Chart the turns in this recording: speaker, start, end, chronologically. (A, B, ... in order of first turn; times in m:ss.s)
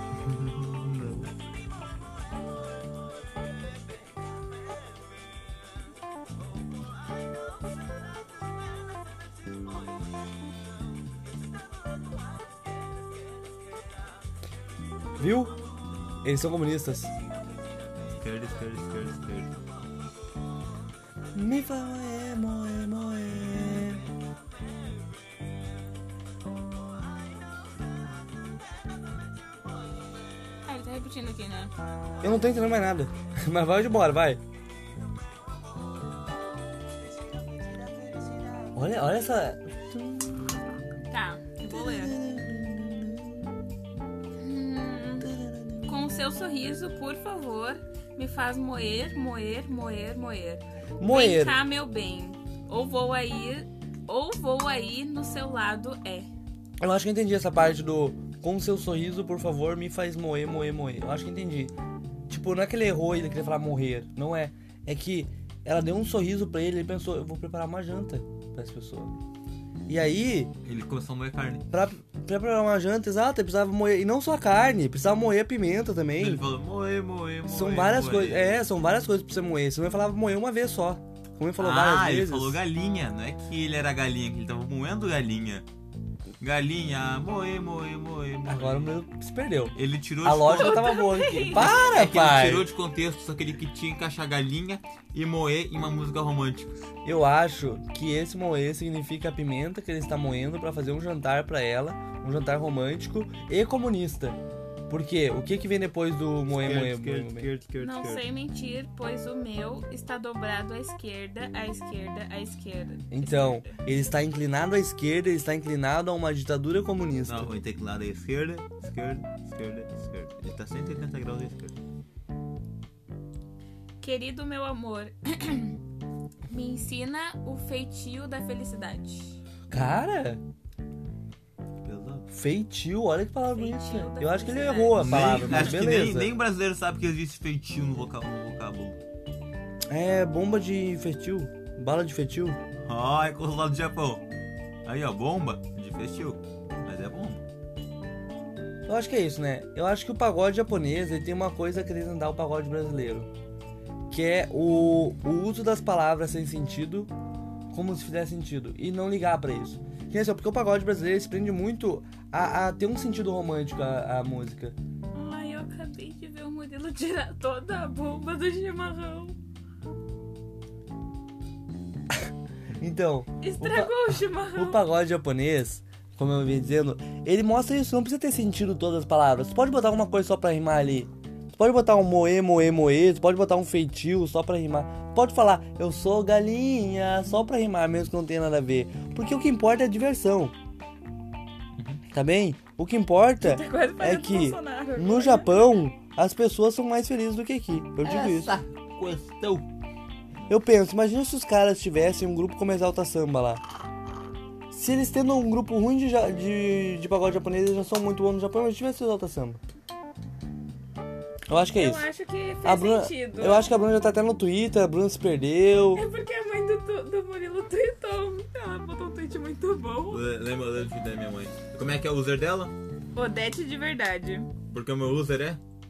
0:00.2-0:01.3 A
0:15.2-0:15.6 B
0:16.2-0:17.1 B
0:18.1-0:19.6 A
0:21.3-0:24.0 B
0:30.6-0:31.7 C
0:32.2-0:34.4 B
0:38.7-0:40.5 B
0:41.1-0:42.1 C
0:41.7-0:43.5 B
0:44.4-0:45.3 C
0:45.2-0:46.0 B
0:45.8-0:56.3 C
0:51.0-0:51.6 B
0:56.8-1:01.7 B
1:02.3-1:09.1 B
1:09.9-1:10.5 B
1:10.6-1:11.6 A
1:11.7-1:16.4 B
1:16.2-1:18.7 A
1:17.5-1:22.6 B
1:21.6-1:25.7 A
1:26.4-1:29.0 A
1:28.4-1:32.7 B
1:29.7-1:36.9 A
1:30.5-1:31.8 C
1:37.0-1:47.5 B
1:46.5-1:48.2 A
1:47.8-1:53.7 C
1:53.1-1:57.6 B
1:57.2-2:01.8 A
2:04.0-2:05.8 C
2:06.5-2:09.4 C
2:09.7-2:10.4 B
2:11.8-2:12.2 A
2:12.3-2:16.3 B
2:13.5-2:15.2 C
2:15.0-2:19.0 A
2:19.9-2:22.6 B
2:22.8-2:24.2 A
2:24.8-2:27.4 A
2:28.9-2:33.3 B
2:34.1-2:37.1 B
2:37.7-2:44.8 B
2:45.1-2:49.4 C
2:52.8-3:10.5 B
2:53.4-2:54.8 C
3:11.8-3:12.0 A
3:12.1-3:18.6 B
3:13.4-3:15.7 C
3:18.0-3:19.7 A
3:20.5-3:23.6 B
3:24.7-3:29.6 B
3:31.5-3:32.1 B
3:31.7-3:33.7 C
3:32.6-3:36.0 B
3:35.9-3:40.2 C
3:40.1-3:42.7 A
3:43.1-3:44.5 C
3:44.7-3:45.6 A